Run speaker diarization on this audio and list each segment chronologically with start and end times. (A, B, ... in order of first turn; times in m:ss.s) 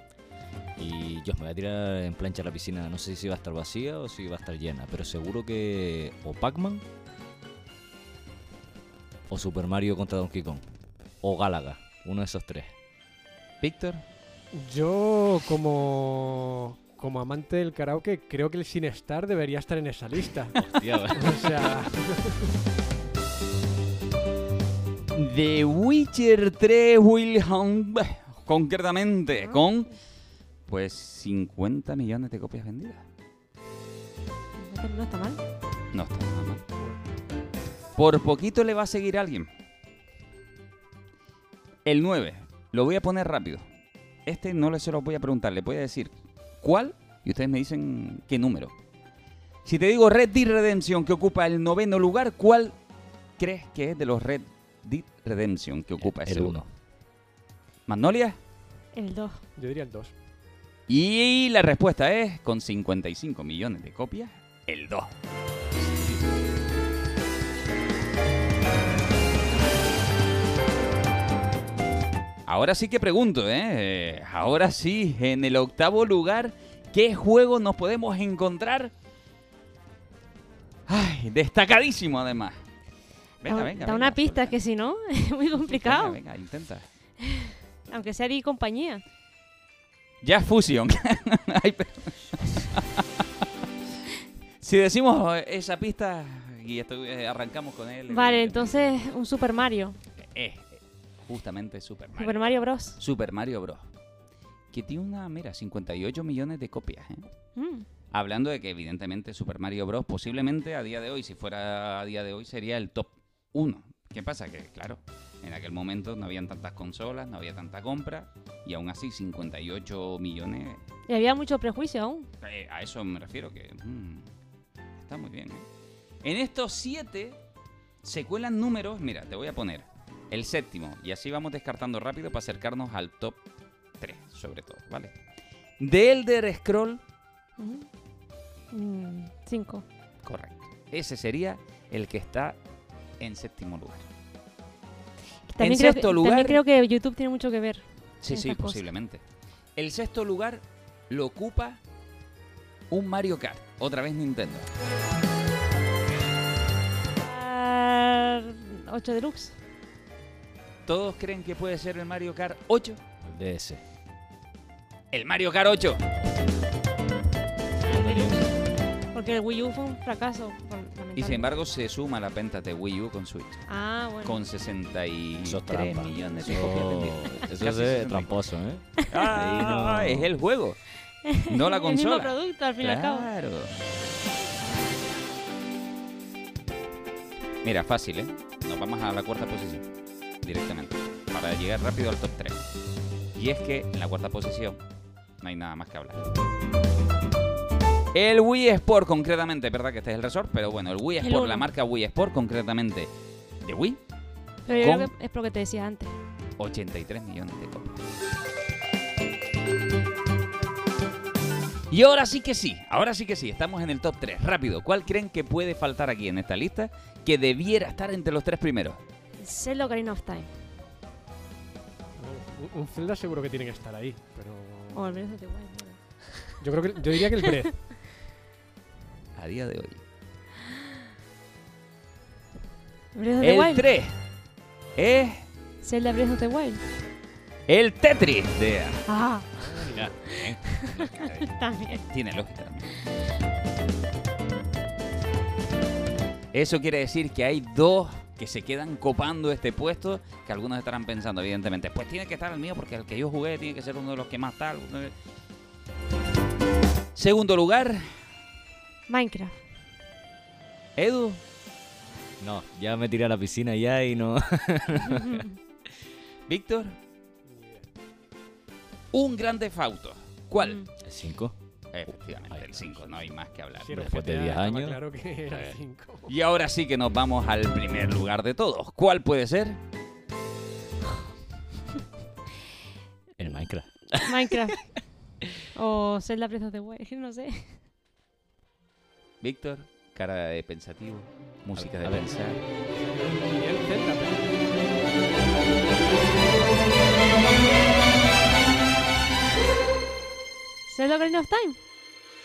0:00.8-0:06.8 A
0:09.3-0:10.6 A
0:11.2-0:12.7 A
0:13.6-0:14.0 B
0:14.5-0:20.6 C
0:20.6-0:21.5 A
0:21.2-0:22.5 C
0:25.1-0:29.9 B
0:29.3-0:29.6 D
0:30.7-0:33.0 B
0:34.6-0:35.4 D
0:35.9-0:36.6 B
0:38.0-0:39.5 B
0:41.9-0:43.6 B
0:44.3-0:48.7 B
0:49.6-0:52.8 B
0:53.4-0:56.6 B
0:56.0-0:56.7 A
0:57.9-0:58.4 B
0:58.9-0:59.4 D
0:59.6-1:00.1 C
1:00.9-1:05.1 B
1:12.5-1:18.9 B
1:20.9-1:22.6 B
1:23.4-1:24.6 B
1:23.4-1:26.2 D
1:25.7-1:26.9 B
1:27.4-1:29.0 D
1:30.2-1:33.0 B
1:34.6-1:39.0 B
1:38.1-1:40.0 D
1:40.2-1:43.9 B
1:42.2-1:43.0 D
1:44.7-1:47.2 B
1:47.6-1:47.9 D
1:48.1-2:00.8 B
2:01.1-2:02.3 D
2:02.4-2:04.3 B
2:05.0-2:05.6 B
2:06.2-2:07.4 B
2:08.0-2:13.4 B
2:14.0-2:15.1 B
2:15.8-2:17.0 B
2:17.6-2:17.9 D
2:18.7-2:19.8 D
2:20.2-2:22.6 B
2:23.2-2:24.0 B
2:25.5-2:28.8 D
2:25.6-2:26.6 B
2:28.2-2:29.2 B
2:29.8-2:31.8 B
2:32.9-2:34.7 B
2:37.2-2:39.6 D
2:40.9-2:43.0 B
2:43.2-2:43.8 A
2:45.1-2:46.0 B
2:47.8-2:48.5 A
2:48.0-2:48.4 D
2:49.1-2:51.5 D
2:51.2-2:53.7 B
2:53.7-2:54.4 D
2:54.2-2:58.4 B
2:55.4-3:00.3 A
2:59.1-3:00.8 B
3:01.3-3:03.3 D
3:01.4-3:03.8 B
3:07.6-3:09.8 B
3:10.4-3:12.6 B
3:13.4-3:14.8 B
3:15.4-3:16.2 B
3:18.1-3:23.1 B
3:21.2-3:21.7 D
3:23.6-3:24.0 B
3:24.7-3:26.2 D
3:24.8-3:25.1 B
3:26.6-3:28.0 B
3:31.9-3:39.0 B
3:39.4-3:40.5 D
3:42.2-3:45.2 C
3:44.9-3:46.6 D
3:46.6-3:47.9 C
3:49.4-3:50.0 B
3:53.2-3:53.8 D
3:53.4-3:54.1 B
3:55.0-3:55.4 B
3:55.8-3:56.8 D
3:57.7-3:59.0 B
3:59.1-4:00.0 D
3:59.8-4:03.0 B
3:59.8-4:00.4 A
4:01.5-4:02.0 D
4:06.5-4:15.1 B
4:17.2-4:18.1 B
4:19.1-4:19.6 D
4:21.0-4:21.4 B
4:22.4-4:25.4 A
4:26.5-4:27.0 B
4:27.5-4:27.9 C
4:29.1-4:30.8 B
4:30.6-4:30.9 D
4:31.0-4:31.6 A
4:31.9-4:34.0 B
4:32.5-4:33.1 A
4:33.8-4:36.3 C
4:33.9-4:35.8 A
4:36.3-4:39.8 B
4:43.4-4:44.6 A
4:44.2-4:44.9 D
4:45.8-4:47.8 D
4:49.4-4:52.6 B
4:51.8-4:52.4 A
4:52.8-4:55.2 C
5:00.9-5:01.8 D